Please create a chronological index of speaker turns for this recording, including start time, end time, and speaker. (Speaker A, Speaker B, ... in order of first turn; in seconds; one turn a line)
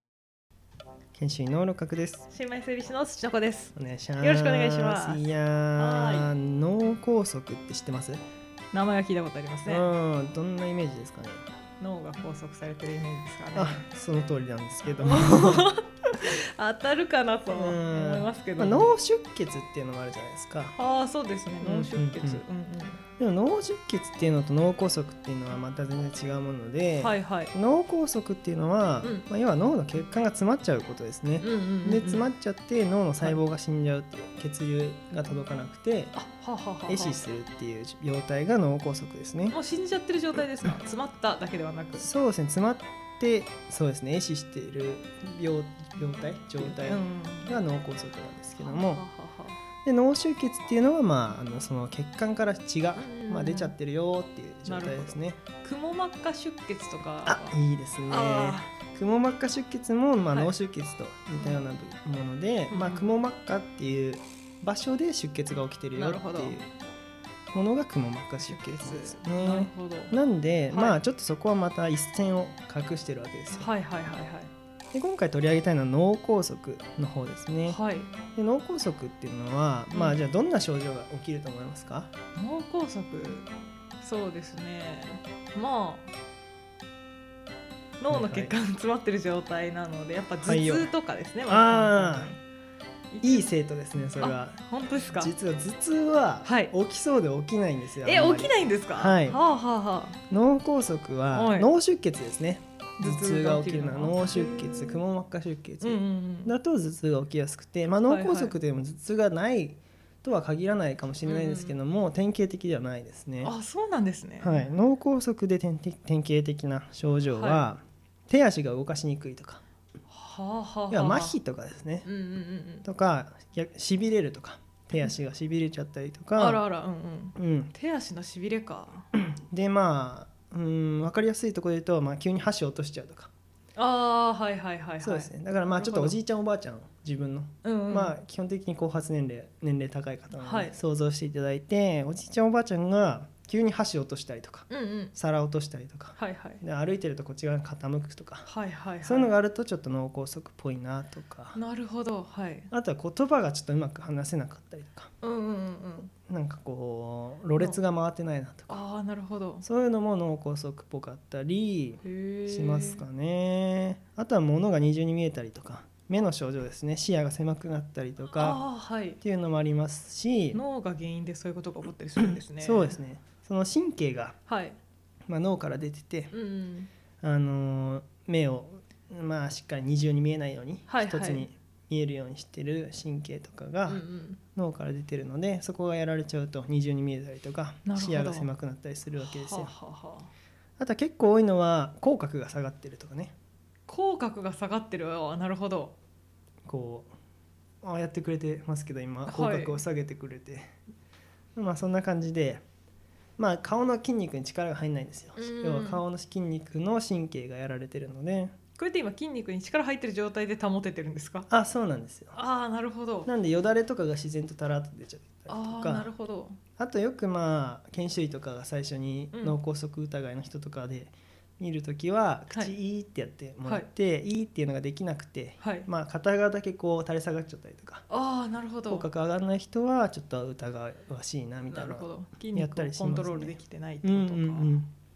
Speaker A: 1.1-2.3
Speaker B: 2.3-5.2
Speaker A: 3.7-8.2
Speaker B: 5.8-6.3
Speaker B: 8.7-9.8
Speaker A: 9.7-11.4
Speaker B: 11.8-13.8
Speaker A: 13.5-15.7
Speaker B: 15.0-18.9
Speaker A: 17.5-20.8
Speaker B: 20.7-23.0
Speaker A: 21.6-22.4
Speaker A: 23.2-36.1
Speaker B: 27.0-27.5
Speaker B: 29.0-29.3
Speaker B: 31.4-32.3
Speaker B: 36.1-37.2
Speaker A: 36.9-39.5
Speaker B: 39.5-42.1
Speaker A: 42.0-49.0
Speaker B: 46.6-47.5
Speaker B: 48.6-49.6
Speaker A: 49.8-55.4
Speaker B: 52.9-53.7
Speaker B: 54.6-57.6
Speaker A: 57.2-66.7
Speaker B: 58.1-58.7
Speaker B: 61.3-61.6
Speaker B: 62.7-63.1
Speaker B: 65.9-66.6
Speaker A: 67.5-73.7
Speaker B: 68.4-70.1
Speaker B: 70.7-71.0
Speaker B: 73.5-74.5
Speaker A: 74.9-77.8
Speaker B: 77.7-78.1
Speaker A: 78.3-82.1
Speaker B: 79.9-80.2
Speaker B: 82.3-83.5
Speaker B: 84.0-86.1
Speaker B: 88.0-92.4
Speaker A: 88.1-88.5
Speaker A: 90.4-90.9
Speaker A: 91.5-92.3
Speaker B: 93.1-93.5
Speaker A: 93.2-99.4
Speaker B: 94.2-95.3
Speaker B: 96.4-96.7
Speaker B: 98.0-100.2
Speaker A: 100.3-113.5
Speaker B: 101.3-101.7
Speaker B: 103.0-104.9
Speaker B: 105.8-106.5
Speaker B: 108.1-108.5
Speaker B: 111.2-111.7
Speaker B: 113.4-114.7
Speaker A: 114.4-119.6
Speaker B: 117.3-117.6
Speaker B: 120.1-121.4
Speaker A: 120.9-122.1
Speaker B: 122.0-122.8
Speaker A: 122.8-126.6
Speaker B: 126.4-129.1
Speaker A: 127.3-127.7
Speaker A: 129.1-133.3
Speaker B: 133.8-136.2
Speaker A: 135.0-148.5
Speaker B: 137.6-138.2
Speaker B: 140.3-140.8
Speaker B: 144.7-145.1
Speaker B: 146.2-146.6
Speaker B: 148.4-149.3
Speaker A: 149.0-151.6
Speaker B: 151.5-152.7
Speaker A: 152.7-155.1
Speaker B: 155.2-156.1
Speaker A: 156.3-158.8
Speaker B: 158.7-159.6
Speaker A: 159.6-168.6
Speaker B: 162.0-163.1
Speaker B: 168.3-169.2
Speaker A: 169.2-170.6
Speaker B: 170.5-173.0
Speaker A: 172.5-174.4
Speaker B: 174.5-174.8
Speaker A: 175.3-176.3
Speaker B: 176.3-176.9
Speaker A: 177.2-189.7
Speaker B: 180.9-181.5
Speaker B: 183.9-184.4
Speaker B: 187.8-188.5
Speaker B: 189.2-190.3
Speaker A: 190.8-193.3
Speaker B: 193.9-195.9
Speaker A: 196.6-197.1
Speaker A: 197.8-200.7
Speaker B: 199.2-199.8
Speaker A: 201.6-202.6
Speaker A: 203.4-208.5
Speaker B: 205.3-206.0
Speaker B: 208.8-211.5
Speaker A: 211.5-212.4
Speaker B: 212.3-213.3
Speaker A: 213.2-216.1
Speaker B: 215.5-216.6
Speaker A: 216.8-228.0
Speaker B: 219.3-219.6
Speaker B: 225.6-225.9
Speaker B: 228.1-229.1
Speaker A: 228.9-234.9
Speaker B: 231.7-234.7